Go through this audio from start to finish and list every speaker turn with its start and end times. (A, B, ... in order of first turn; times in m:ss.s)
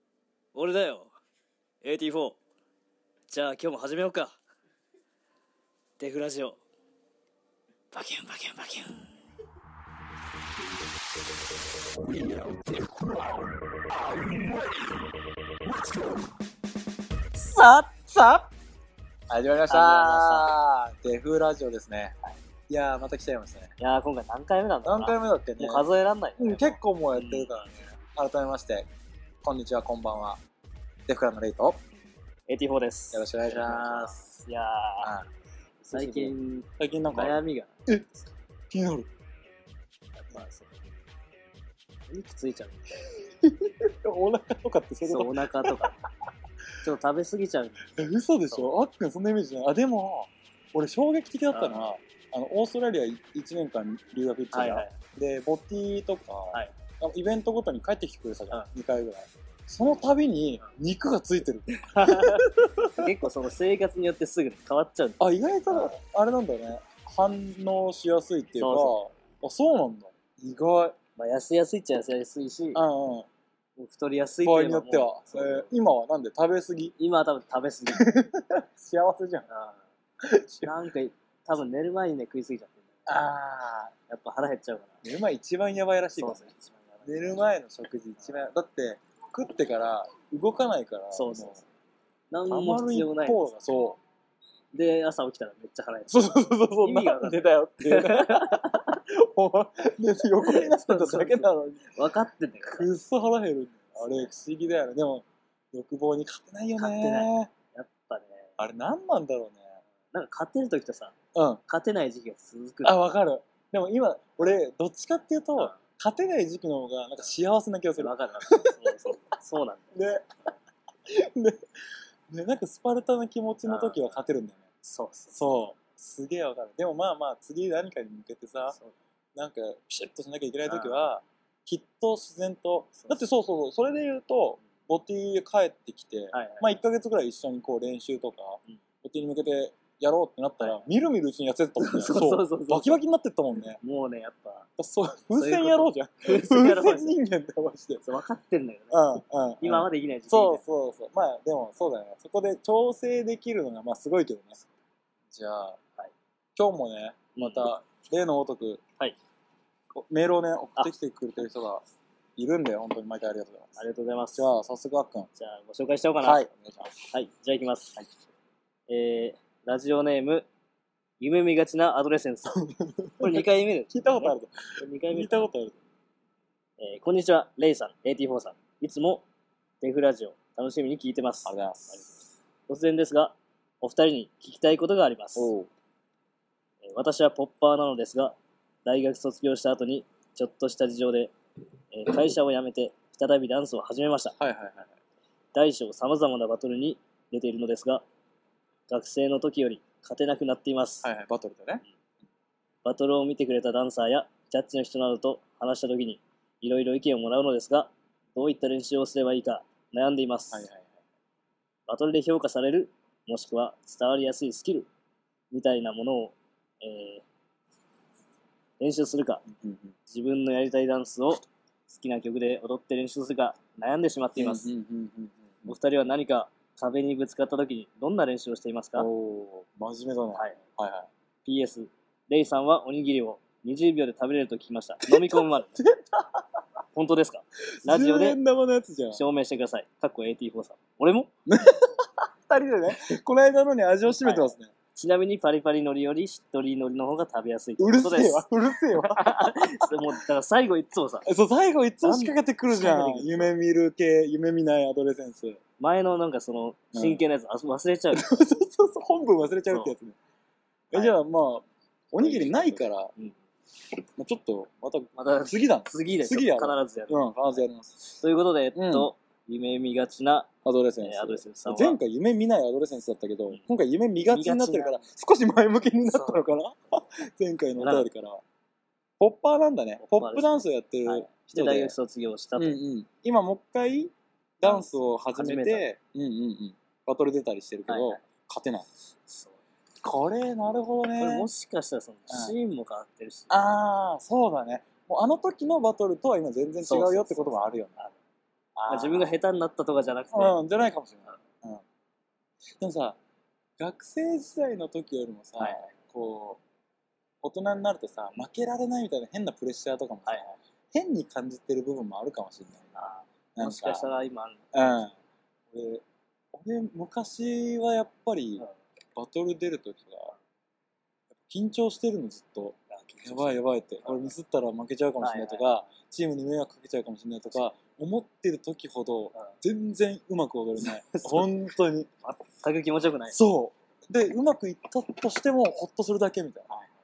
0:00.5-0:01.1 A
0:01.8-0:02.4 A
0:03.3-0:04.4 A
0:06.0-0:06.6 A
0:07.9-0:09.0 A
0:17.4-0:18.5 B
0:19.3-0:22.1 B
0:19.7-0:20.5 A
0:22.7-0:23.7 B
0:23.8-0:27.5 A
0:24.8-0:25.9 B
0:26.4-0:28.9 B
0:29.4-0:30.4 B
0:31.0-0:31.8 B
0:32.5-0:35.2 A
0:33.1-0:34.2 B
0:35.0-0:35.3 B
0:35.9-0:37.7 A
0:35.9-0:38.1 B
0:38.7-0:39.1 B
0:40.2-0:40.8 A
0:42.1-0:43.1 A
0:43.2-0:45.9 B
0:45.0-0:46.0 A
0:46.8-0:48.7 A
0:48.0-1:03.1 B
0:51.5-0:51.8 A
0:54.5-0:55.0 A
1:01.7-1:05.9 A
1:05.2-1:11.0 B
1:08.6-1:08.9 A
1:11.2-1:12.8 A
1:12.7-1:13.3 B
1:13.8-1:15.7 A
1:14.4-1:16.9 B
1:17.0-1:18.2 A
1:17.9-1:19.5 B
1:19.5-1:19.8 A
1:20.2-1:20.8 B
1:20.6-1:23.1 A
1:23.0-1:23.9 B
1:24.1-1:25.0 A
1:25.0-1:26.5 B
1:26.2-1:27.4 A
1:27.0-1:31.6 B
1:31.1-1:31.6 A
1:32.3-1:33.4 A
1:32.5-1:34.0 B
1:34.7-1:36.3 A
1:36.1-1:41.9 B
1:36.8-1:38.9 A
1:40.4-1:42.9 A
1:42.6-1:47.5 B
1:46.8-1:48.6 A
1:48.6-1:49.6 B
1:50.1-1:51.1 A
1:51.3-1:51.6 B
1:51.6-1:53.0 A
1:52.8-1:59.0 B
1:58.0-2:00.0 A
1:59.9-2:00.2 B
2:01.1-2:01.6 B
2:02.3-2:04.7 B
2:03.6-2:04.2 A
2:04.8-2:05.4 A
2:05.3-2:08.8 B
2:09.3-2:23.8 B
2:10.7-2:11.0 A
2:16.3-2:16.7 A
2:20.6-2:20.9 A
2:21.8-2:23.0 A
2:23.8-2:24.7 A
2:24.8-2:28.1 B
2:25.4-2:27.2 A
2:28.0-2:29.1 A
2:28.9-2:34.6 B
2:29.6-2:30.6 A
2:35.3-2:35.8 B
2:36.6-2:38.8 B
2:37.4-2:37.7 A
2:39.9-2:41.8 B
2:42.4-2:43.8 B
2:43.8-2:44.5 A
2:44.3-2:45.3 B
2:45.4-2:46.5 A
2:46.2-2:47.0 B
2:47.1-2:48.0 A
2:48.9-2:50.5 A
2:51.2-2:52.6 A
2:52.5-2:55.8 B
2:53.2-2:55.4 A
2:56.8-2:59.2 A
2:59.8-3:02.0 A
3:01.4-3:02.1 B
3:02.7-3:05.5 A
3:05.4-3:05.7 B
3:06.8-3:11.3 A
3:11.9-3:14.4 A
3:14.4-3:14.9 B
3:15.5-3:18.0 A
3:18.9-3:21.1 A
3:21.0-3:21.8 B
3:22.8-3:30.6 A
3:30.5-3:30.9 B
3:31.9-3:34.9 A
3:35.5-3:37.2 A
3:38.8-3:39.4 A
3:39.5-3:39.9 B
3:40.1-3:44.7 A
3:44.4-3:45.7 B
3:45.6-3:49.1 A
3:49.0-3:51.1 B
3:50.3-3:50.6 A
3:51.4-3:55.8 A
3:55.1-3:56.4 B
3:56.9-3:58.4 A
3:57.8-3:59.2 B
3:59.1-4:01.3 A
4:01.5-4:04.7 B
4:04.1-4:11.3 A
4:07.8-4:10.0 B
4:11.2-4:15.6 B
4:12.0-4:13.5 A
4:15.8-4:18.4 A
4:16.9-4:17.2 B
4:18.1-4:20.2 B
4:20.9-4:23.1 B
4:20.9-4:21.2 A
4:22.2-4:23.4 A
4:24.2-4:28.1 B
4:25.2-4:27.3 A
4:28.2-4:30.5 A
4:28.7-4:29.1 B
4:30.6-4:38.4 B
4:31.0-4:32.0 A
4:34.3-4:35.0 A
4:36.1-4:36.4 A
4:37.8-4:38.1 A
4:39.2-4:41.9 B
4:40.0-4:42.8 A
4:42.6-4:48.9 B
4:44.6-4:45.8 A
4:47.9-4:48.2 A
4:49.3-4:49.6 A
4:50.0-4:51.5 B
4:51.1-4:53.7 A
4:52.3-4:52.5 B
4:53.5-4:58.0 B
4:56.8-4:58.2 A
4:58.8-4:59.3 B
4:58.9-5:00.6 A
5:00.3-5:01.8 B
5:02.8-5:03.2 B
5:03.8-5:06.6 B
5:05.6-5:05.9 A
5:07.4-5:14.1 B
5:10.2-5:10.6 A
5:12.9-5:15.0 A
5:14.7-5:15.1 B
5:15.7-5:18.6 B
5:19.2-5:20.3 B
5:21.5-5:32.1 B
5:22.9-5:24.3 A
5:25.2-5:25.7 A
5:30.8-5:31.6 A
5:32.2-5:33.4 A
5:33.3-5:36.7 B